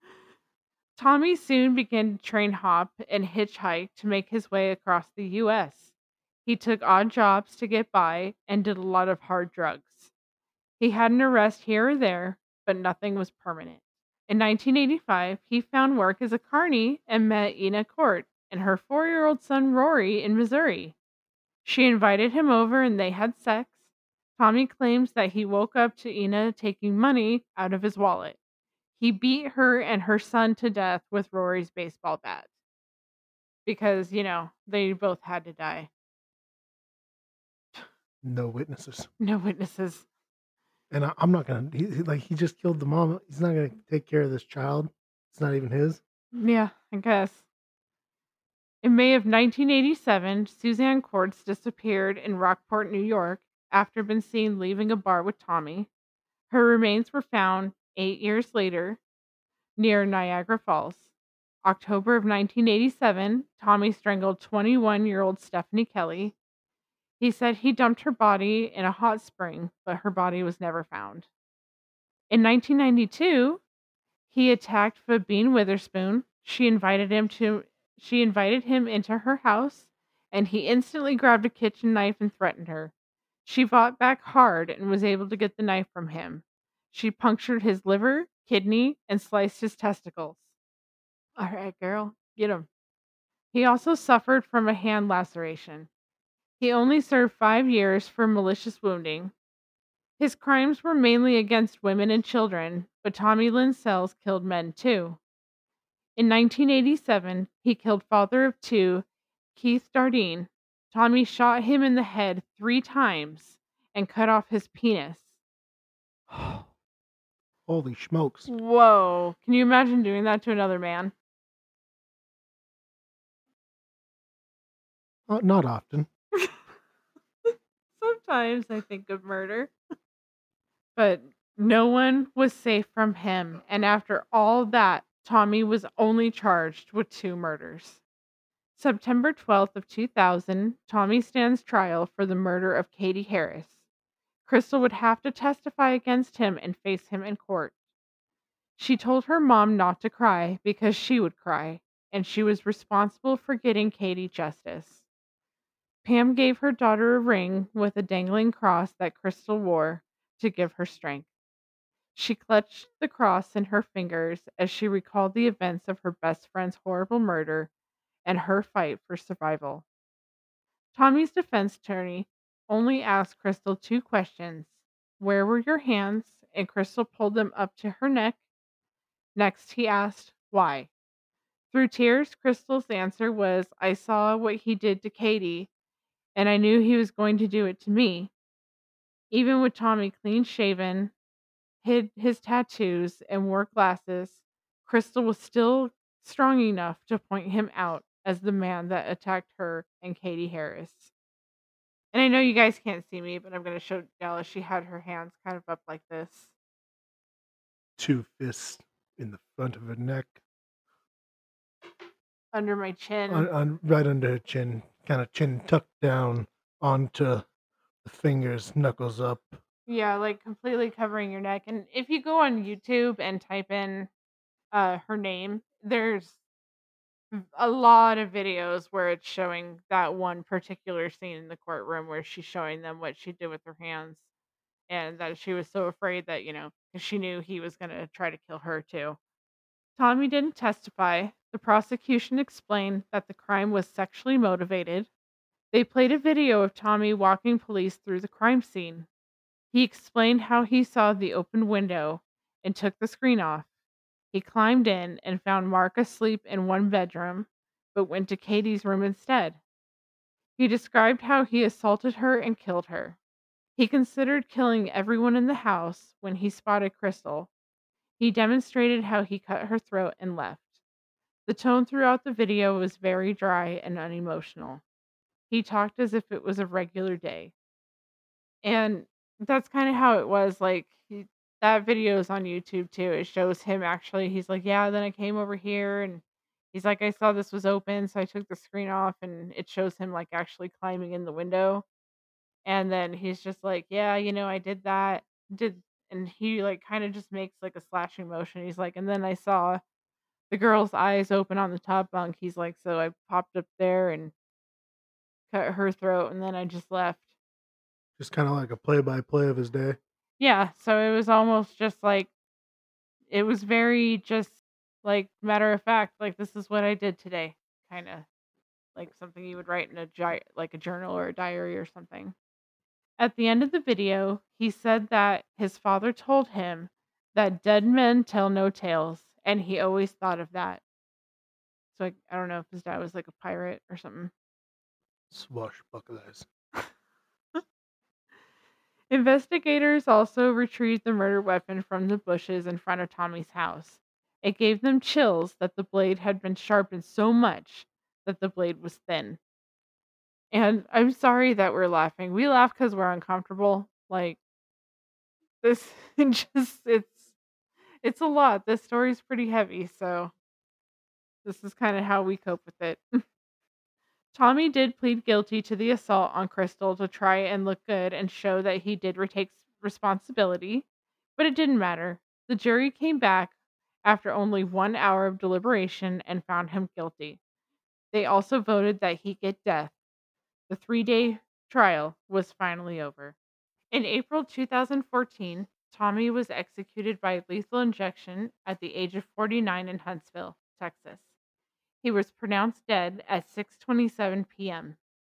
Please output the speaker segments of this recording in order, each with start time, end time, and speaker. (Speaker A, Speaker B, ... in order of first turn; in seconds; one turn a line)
Speaker A: 1.0-5.9
Speaker A: 6.5-10.1
Speaker A: 10.8-21.0
Speaker A: 21.6-23.8
Speaker A: 24.4-28.4
Speaker A: 29.0-32.5
Speaker A: 33.7-35.9
Speaker B: 38.2-39.1
Speaker A: 39.2-40.1
Speaker B: 40.9-46.0
Speaker A: 46.3-47.5
Speaker A: 48.8-55.9
Speaker A: 56.5-59.0
Speaker A: 59.8-61.1
Speaker A: 61.6-66.3
Speaker A: 67.2-71.3
Speaker A: 72.3-73.6
Speaker A: 74.3-82.9
Speaker A: 83.5-90.5
Speaker A: 91.4-92.7
Speaker A: 93.5-95.9
Speaker A: 96.6-99.3
Speaker A: 100.2-105.2
Speaker A: 106.2-115.3
Speaker A: 116.3-116.7
Speaker B: 117.7-118.5
Speaker A: 118.5-121.1
Speaker B: 125.3-126.1
Speaker A: 128.0-129.7
Speaker A: 130.9-138.0
Speaker A: 138.8-143.8
Speaker A: 144.5-147.7
Speaker A: 148.8-155.0
Speaker A: 156.0-161.3
Speaker A: 162.2-167.7
Speaker A: 168.2-169.8
Speaker A: 170.9-178.4
Speaker A: 179.3-180.9
Speaker A: 181.7-185.7
Speaker A: 186.3-188.3
Speaker A: 189.3-191.1
Speaker A: 191.8-201.1
Speaker A: 202.1-206.5
Speaker B: 208.0-210.4
Speaker A: 212.5-213.5
Speaker B: 213.3-217.5
Speaker B: 218.0-219.6
Speaker A: 219.9-224.1
Speaker A: 224.7-226.4
Speaker A: 227.3-234.2
Speaker A: 234.9-239.2
Speaker A: 240.0-245.1
Speaker A: 245.7-249.1
Speaker A: 249.7-253.7
Speaker A: 254.3-259.6
Speaker A: 260.6-263.2
Speaker A: 263.8-267.5
Speaker A: 268.2-270.8
Speaker A: 271.5-274.8
Speaker A: 275.5-277.5
Speaker A: 278.6-291.9
Speaker A: 292.6-299.8
Speaker A: 300.5-304.3
Speaker A: 305.5-307.3
Speaker B: 308.2-310.0
Speaker A: 310.4-312.3
Speaker A: 313.3-318.3
Speaker A: 318.9-322.3
Speaker A: 323.2-330.8
Speaker A: 331.9-334.3
Speaker B: 335.3-336.5
Speaker A: 339.1-349.4
Speaker A: 350.5-354.4
Speaker A: 355.6-357.3
Speaker A: 358.0-360.3
Speaker A: 361.4-363.0
Speaker A: 364.3-370.9
Speaker A: 371.4-377.4
Speaker A: 378.1-379.9
Speaker A: 380.7-383.4
Speaker A: 383.9-391.3
Speaker A: 392.0-395.0